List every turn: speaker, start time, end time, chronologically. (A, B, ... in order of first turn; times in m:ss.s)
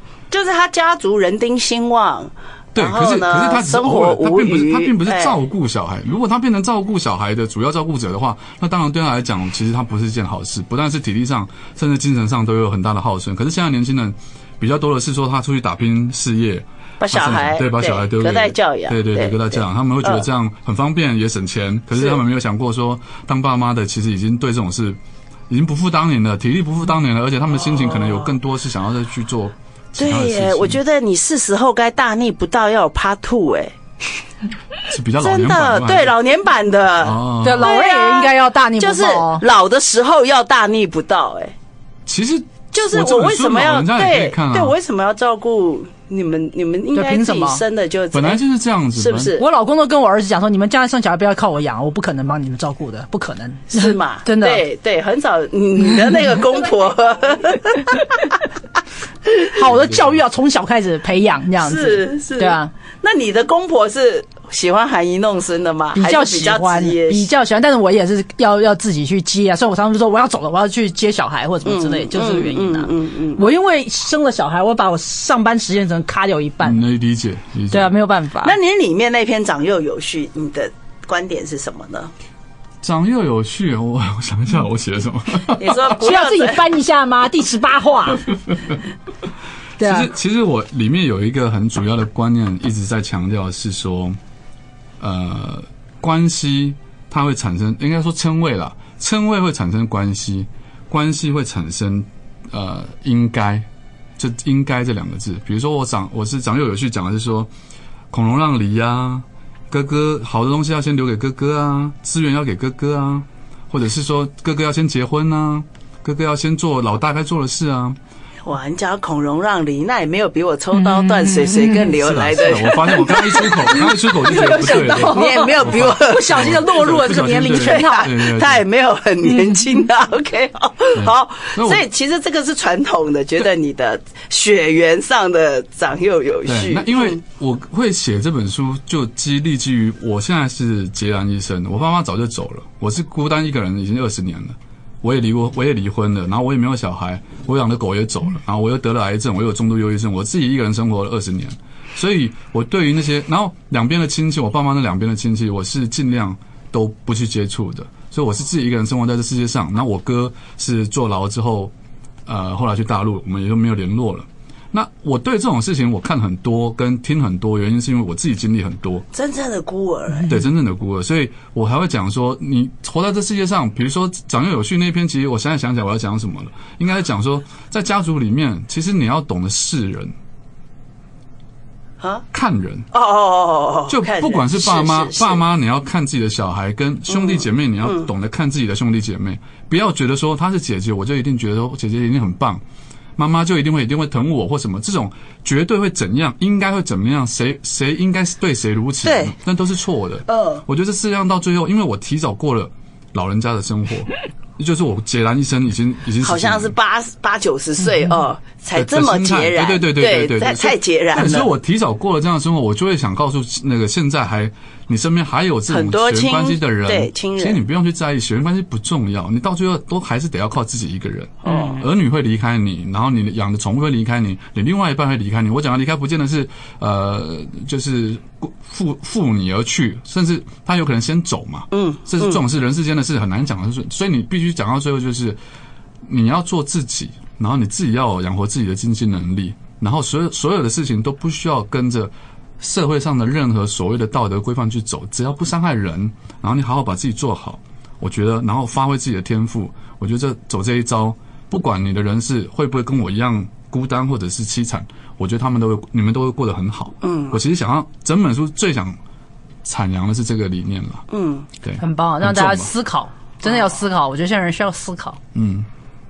0:00.3-0:05.4 A
0:02.7-0:30.8 B
0:17.0-0:20.2 A
0:21.9-0:22.2 A
0:27.7-0:28.3 A
0:30.0-0:33.7 A
0:34.9-0:36.1 B
0:35.2-0:41.5 A
0:37.0-0:37.7 B
0:37.4-0:39.4 C
0:42.0-0:44.7 B
0:42.7-0:48.4 A
0:46.9-0:47.6 C
0:48.1-0:49.3 B
0:49.0-0:49.4 A
0:49.4-0:54.6 C
0:53.7-0:58.3 A
0:59.5-1:02.7 C
0:59.6-1:00.2 B
1:01.6-1:07.3 A
1:05.9-1:16.8 C
1:11.6-1:13.4 A
1:16.6-1:17.9 B
1:17.7-1:18.6 C
1:18.4-1:22.1 A
1:22.8-1:25.9 B
1:25.6-1:26.6 A
1:25.9-1:28.3 C
1:29.8-1:30.1 C
1:29.8-1:34.2 B
1:35.0-1:43.7 B
1:44.2-1:47.5 B
1:48.1-1:58.0 B
1:58.4-2:17.2 A
2:00.7-2:01.9 C
2:02.0-2:08.6 B
2:03.3-2:08.2 C
2:10.9-2:11.8 B
2:16.4-2:41.7 B
2:42.2-2:49.0 B
2:49.1-2:50.3 A
2:50.3-3:00.1 B
3:02.3-3:02.8 B
3:02.9-3:05.4 A
3:03.9-3:12.6 B
3:07.1-3:08.1 A
3:13.2-3:26.7 B
3:19.0-3:19.3 A
3:20.3-3:20.6 A
3:26.2-3:31.5 A
3:28.7-3:55.4 B
3:35.7-3:37.6 A
3:41.4-3:41.8 A
3:51.7-3:52.4 A
3:56.0-4:19.0 B
4:17.0-4:17.4 A
4:19.6-4:21.0 B
4:21.1-4:21.5 A
4:21.6-4:22.7 B
4:21.8-4:25.2 C
4:25.3-4:25.7 B